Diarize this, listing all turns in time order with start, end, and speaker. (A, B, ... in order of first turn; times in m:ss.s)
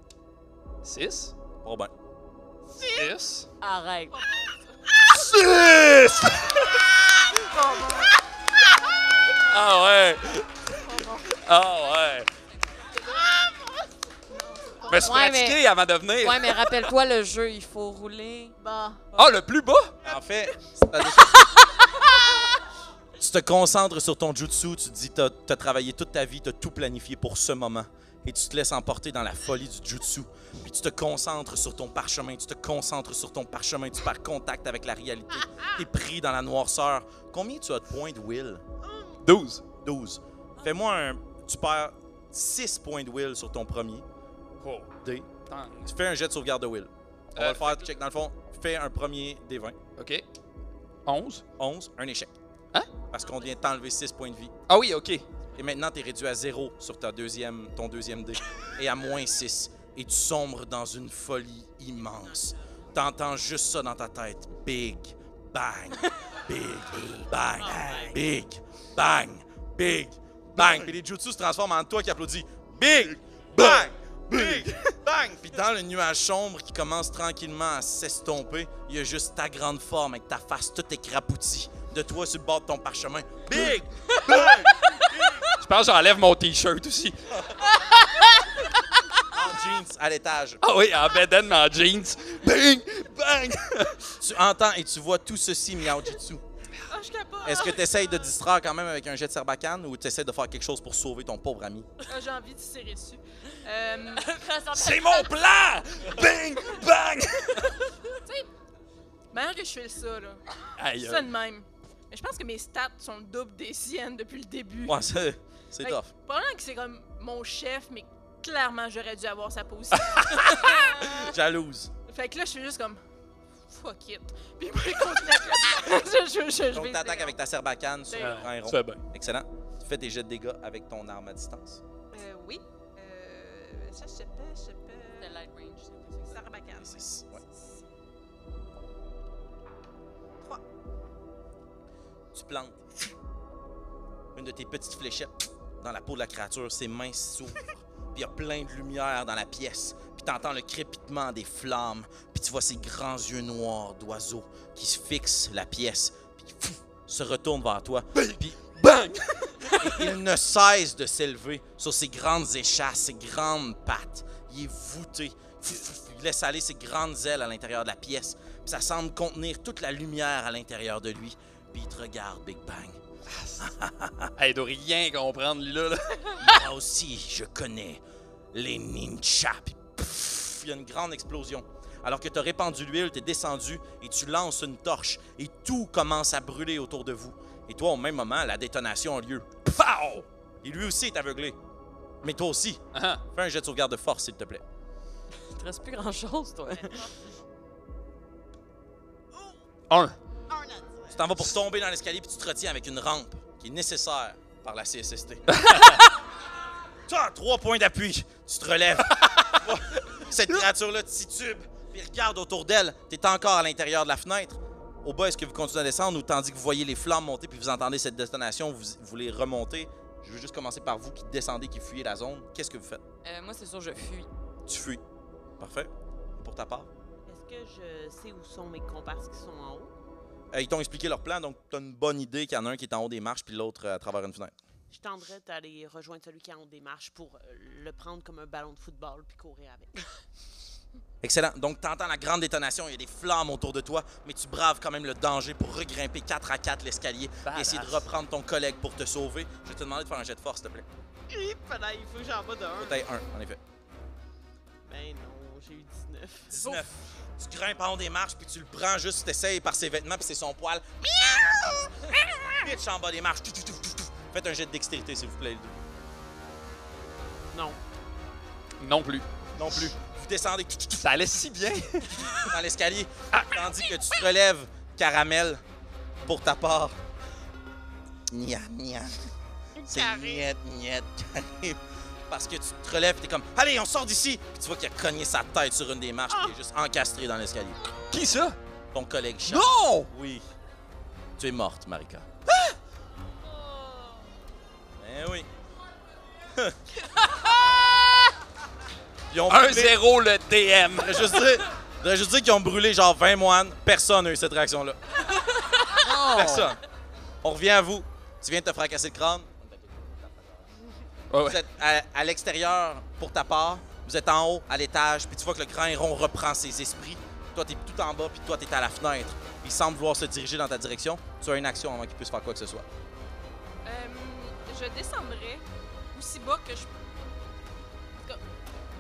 0:00.8-0:01.3 A
0:01.6-0:01.9 B
0:03.0-0:03.5 A
0:03.6-0:04.1 C
0:04.1-0:04.8 D
0:05.1-0:07.5 A
0:07.4-0:08.2 D
0:09.4-0:12.3 A
0:10.8-0:11.4 D
0:13.0-0:13.2 D
0:14.3-0:15.2 D
0:14.9-0:16.8 A
0:15.1-0:15.6 C
0:16.2-0:18.6 C
0:18.6-0:19.3 D
0:19.1-0:20.0 A
0:20.0-0:21.5 B
0:21.1-0:21.8 C
0:23.2-0:38.6 B
0:38.8-0:39.2 E
0:39.2-0:39.6 A
0:39.8-0:44.0 B
0:44.6-0:44.9 A
0:45.0-0:45.3 B
0:45.5-0:45.9 A
0:45.9-0:49.8 B
0:47.4-0:47.8 A
0:50.0-0:50.2 A
0:51.1-0:51.4 A
0:51.6-0:52.3 B
0:53.1-0:54.6 B
0:54.7-0:55.2 A
0:55.6-1:25.5 B
1:07.6-1:08.2 E
1:13.6-1:14.9 A
1:23.6-1:25.0 A
1:25.5-1:29.0 A
1:29.3-1:30.6 B
1:30.6-1:34.2 A
1:34.2-1:36.4 B
1:36.9-1:38.1 D
1:37.4-1:41.9 B
1:42.1-1:44.5 D
1:44.3-1:45.4 C
1:44.7-1:47.9 A
1:49.3-1:50.4 D
1:50.8-1:51.3 A
1:51.0-1:55.0 D
1:54.9-1:56.1 B
1:55.8-2:01.4 D
2:00.6-2:01.9 B
2:02.1-2:03.0 D
2:03.7-2:07.4 D
2:06.7-2:11.8 B
2:08.1-2:08.4 D
2:08.2-2:09.0 A
2:12.1-2:15.4 D
2:15.2-2:16.4 C
2:16.3-2:17.8 D
2:16.8-2:17.4 B
2:22.3-2:22.8 B
2:24.4-2:38.5 B
2:38.2-2:40.1 A
2:39.8-2:53.0 B
2:53.3-2:53.7 A
2:53.6-2:54.3 B
2:54.4-2:56.5 A
2:56.4-3:09.6 B
3:09.7-3:10.2 A
3:10.6-3:11.6 B
3:12.2-3:14.6 B
3:12.9-3:13.2 A
3:15.5-3:17.1 C
3:16.7-3:17.3 E
3:19.9-3:20.2 A
3:20.5-3:21.1 E
3:21.1-3:26.0 B
3:25.5-3:26.0 A
3:27.1-3:43.0 B
3:43.2-3:44.3 C
3:44.7-3:45.0 B
3:45.6-3:46.9 B
3:47.3-3:49.9 E
3:50.5-3:54.6 B
3:54.9-4:00.1 E
4:01.2-4:10.9 B
4:07.4-4:08.0 A
4:11.3-4:13.0 E
4:12.8-4:13.6 B
4:14.9-4:16.5 E
4:16.5-4:25.8 B
4:16.5-4:16.9 D
4:27.5-4:27.8 E
4:28.8-4:29.3 A
4:29.6-4:31.1 B
4:31.0-4:32.5 A
4:32.3-4:35.6 B
4:33.3-4:33.6 A
4:36.2-4:37.0 B
4:38.3-4:39.2 B
4:39.9-4:40.4 C
4:39.9-4:47.8 B
4:48.1-4:48.6 A
4:48.9-4:50.5 B
4:49.5-4:50.1 A
4:51.4-4:52.3 B
4:55.0-4:55.5 B
4:59.3-5:00.0 B
4:59.5-5:01.4 A
5:00.9-5:05.2 B
5:05.9-5:06.8 A
5:06.3-5:06.8 B
5:07.4-5:10.7 B
5:11.3-5:11.6 A
5:11.4-5:22.9 B
5:23.8-5:27.0 D